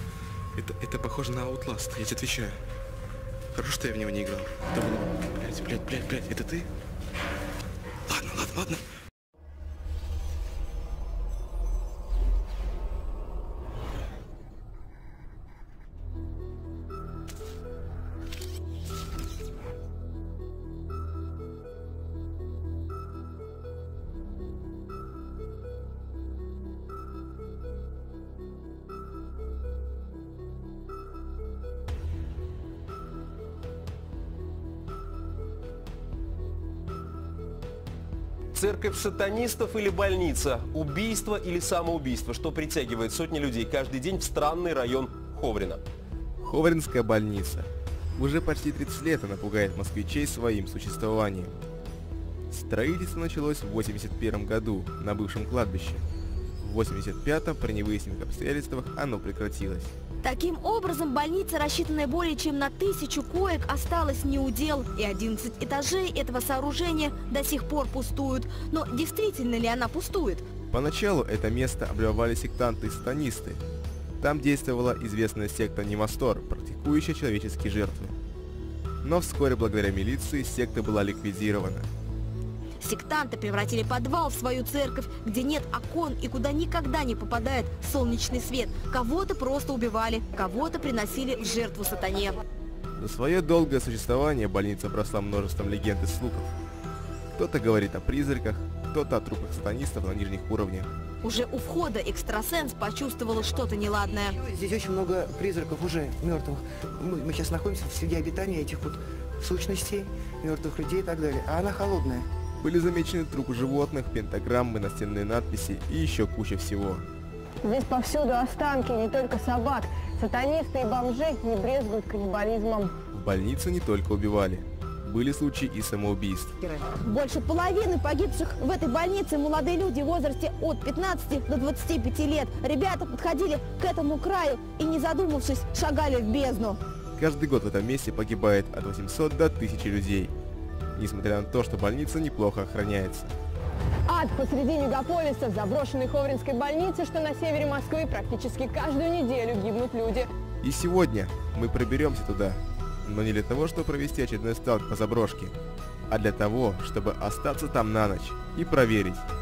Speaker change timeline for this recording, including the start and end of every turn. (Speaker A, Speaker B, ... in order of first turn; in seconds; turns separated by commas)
Speaker A: 0.5-2.6, Speaker A: 3.5-6.7, Speaker A: 8.1-8.8, Speaker B: 38.5-45.8, Speaker A: 46.4-51.5, Speaker A: 52.5-56.0, Speaker A: 56.6-59.9, Speaker C: 60.2-70.4, Speaker A: 70.7-73.6, Speaker A: 74.2-78.2, Speaker A: 79.0-81.9, Speaker C: 82.8-92.4, Speaker A: 93.0-96.5, Speaker A: 97.3-100.9, Speaker C: 101.2-104.4, Speaker D: 104.4-112.3, Speaker A: 112.6-117.1, Speaker E: 117.6-122.9, Speaker A: 123.1-126.5, Speaker C: 126.8-136.8, Speaker A: 137.2-140.3, Speaker A: 140.9-143.3, Speaker E: 144.1-150.3, Speaker A: 150.6-155.5, Speaker A: 156.1-159.2